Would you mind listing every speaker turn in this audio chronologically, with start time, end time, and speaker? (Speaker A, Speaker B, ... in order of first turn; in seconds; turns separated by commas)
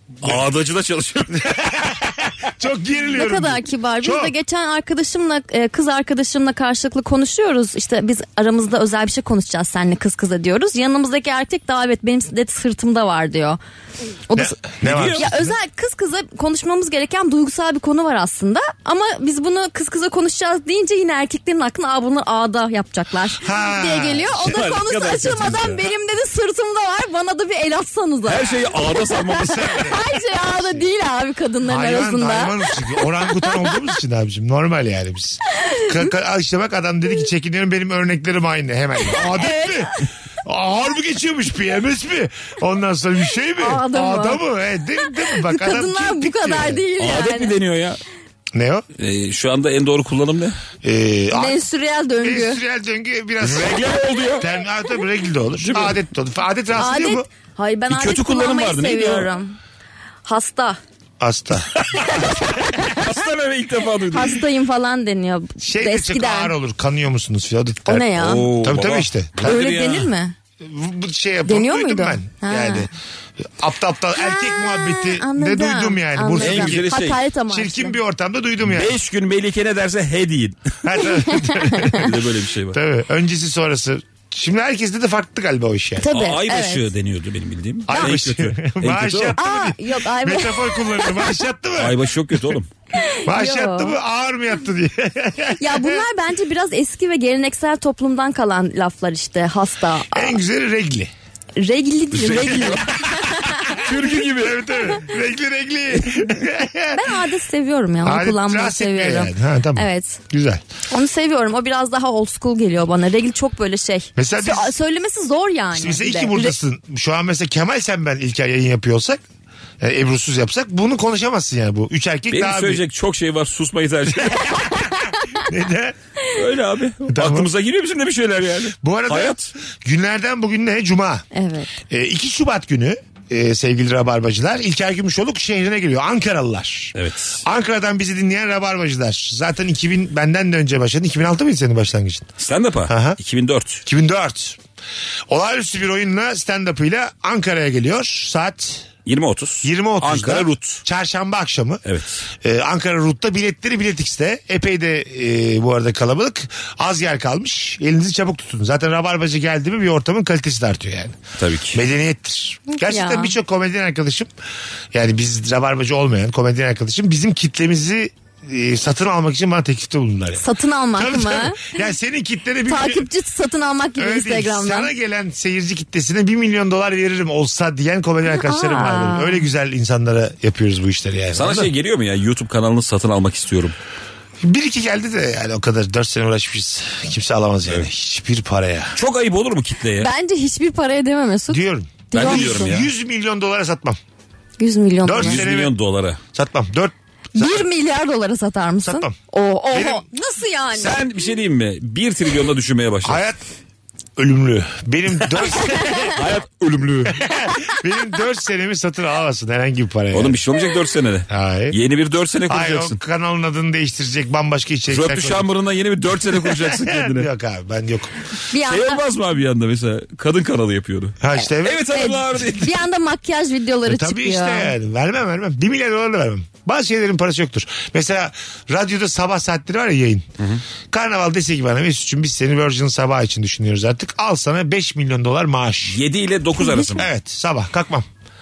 Speaker A: 0.2-1.7, Speaker B: 1.4-4.3, Speaker C: 3.2-13.6, Speaker C: 14.3-14.6, Speaker B: 14.3-15.6, Speaker A: 14.8-15.3, Speaker C: 15.1-28.6, Speaker B: 23.4-24.6, Speaker A: 24.4-25.8, Speaker A: 28.3-29.9, Speaker B: 29.4-30.0, Speaker C: 29.6-32.7, Speaker B: 31.7-46.8, Speaker C: 35.6-35.9, Speaker C: 39.1-39.8, Speaker C: 43.6-44.4, Speaker C: 45.0-47.5, Speaker A: 47.0-48.0, Speaker B: 48.5-48.8, Speaker A: 49.0-50.6, Speaker B: 50.8-51.6, Speaker C: 51.3-52.6, Speaker B: 52.2-57.3, Speaker A: 53.4-54.5, Speaker A: 55.6-56.0, Speaker C: 56.8-59.6, Speaker A: 57.9-59.3, Speaker C: 60.2-60.8, Speaker B: 61.2-61.8, Speaker A: 61.8-64.4, Speaker C: 64.1-66.5, Speaker B: 65.6-68.1, Speaker C: 67.9-68.5, Speaker A: 68.1-70.1, Speaker B: 68.6-69.5, Speaker C: 69.4-70.4, Speaker B: 70.6-72.9, Speaker C: 71.5-72.9, Speaker B: 73.4-76.9, Speaker C: 74.2-78.0, Speaker A: 76.4-77.2, Speaker B: 77.5-79.0, Speaker A: 78.6-80.7, Speaker B: 80.8-82.0, Speaker C: 81.0-82.0, Speaker A: 81.8-82.8, Speaker B: 82.7-86.1, Speaker C: 86.0-86.9, Speaker A: 86.1-89.4, Speaker B: 87.9-92.0, Speaker C: 89.4-91.3, Speaker A: 91.8-92.7, Speaker C: 93.0-94.0, Speaker B: 93.3-96.0, Speaker C: 95.6-100.4, Speaker B: 100.1-101.1, Speaker C: 101.6-103.5, Speaker A: 102.1-102.8, Speaker B: 102.6-103.3, Speaker A: 103.8-104.8, Speaker B: 104.3-107.0, Speaker C: 106.9-110.2, Speaker B: 108.0-110.6, Speaker C: 110.9-116.6, Speaker B: 114.2-114.7, Speaker B: 115.7-119.2, Speaker B: 119.8-122.8, Speaker A: 122.3-124.6, Speaker B: 124.0-126.0, Speaker C: 125.1-125.4, Speaker A: 126.3-129.5, Speaker B: 127.1-127.5, Speaker B: 128.8-131.2, Speaker C: 131.3-131.7, Speaker B: 131.9-142.3, Speaker A: 136.9-137.4, Speaker A: 142.4-143.8, Speaker B: 142.9-143.2, Speaker B: 143.8-144.6, Speaker B: 145.3-148.9, Speaker A: 149.1-150.8, Speaker B: 149.6-151.8, Speaker A: 151.8-152.2, Speaker B: 152.4-161.2, Speaker A: 161.4-161.8, Speaker B: 161.7-164.3, Speaker C: 162.8-163.3, Speaker B: 164.9-173.1, Speaker C: 170.4-171.8, Speaker C: 172.7-174.9, Speaker B: 174.0-181.7, Speaker C: 178.3-179.5, Speaker A: 181.3-183.7, Speaker B: 184.4-188.9, Speaker A: 188.9-190.1, Speaker C: 190.0-192.7, Speaker B: 191.5-194.0, Speaker A: 192.1-192.9, Speaker C: 194.6-195.4, Speaker B: 195.0-195.7, Speaker A: 195.2-196.2, Speaker B: 196.3-197.7, Speaker C: 197.3-201.0, Speaker B: 198.8-199.1, Speaker B: 199.7-200.0, Speaker A: 200.7-203.2, Speaker B: 203.0-203.4, Speaker B: 204.2-206.1, Speaker A: 206.0-207.3, Speaker B: 207.1-210.4, Speaker A: 210.1-213.0, Speaker B: 211.3-211.8, Speaker B: 212.5-215.5, Speaker A: 214.9-217.3, Speaker B: 216.1-218.1, Speaker C: 218.5-219.0, Speaker A: 218.6-222.8, Speaker B: 221.2-222.1, Speaker C: 221.4-224.7, Speaker B: 223.9-230.3, Speaker B: 230.9-236.0, Speaker A: 235.9-237.1, Speaker B: 236.9-238.1